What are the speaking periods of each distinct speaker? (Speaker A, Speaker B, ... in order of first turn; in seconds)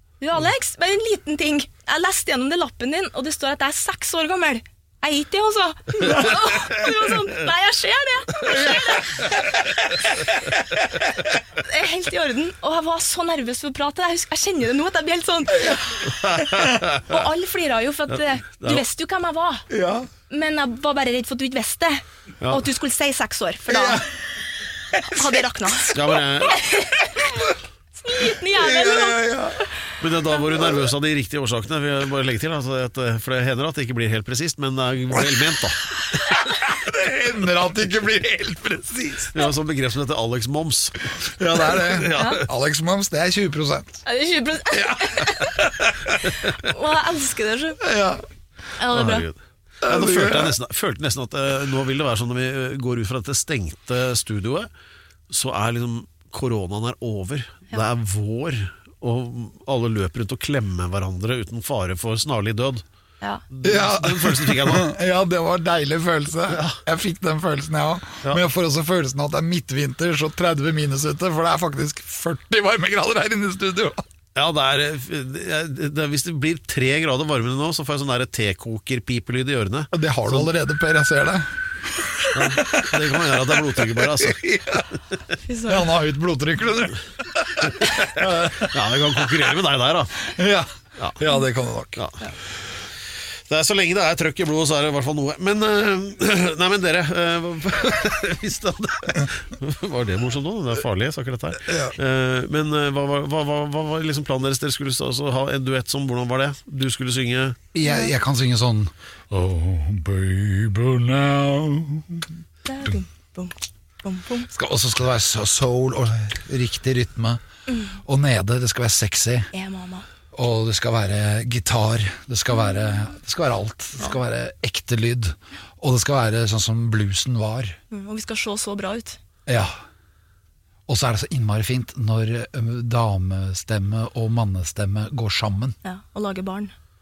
Speaker A: 0.2-10.2, 11.5-16.0, 17.0-19.7, 20.3-24.1, 25.0-27.3, 27.9-29.6, 42.2-42.4, 44.0-45.5, 46.5-47.8, 48.8-49.2, 85.4-85.9, 107.8-108.1, 112.7-114.5, 117.7-118.0, 119.5-120.1, 127.9-129.2, 135.8-136.7
Speaker B: 16.2-17.2, 25.9-26.6, 30.0-35.8, 39.3-42.4, 48.9-54.7, 55.3-62.8, 63.5-64.9, 74.3-80.5, 82.3-84.4, 88.6-90.2, 92.0-92.2, 93.5-107.6
Speaker C: 19.7-20.1, 23.7-24.0, 24.9-25.4, 28.4-29.6, 36.4-39.3, 41.4-44.0, 44.7-46.3, 47.8-48.2, 49.8-50.5, 63.6-74.0, 79.9-84.9, 85.7-88.8, 90.3-92.0, 101.7-102.0, 107.7-112.3, 114.5-117.4, 118.0-119.5, 120.3-127.8, 129.4-129.7, 130.9-135.8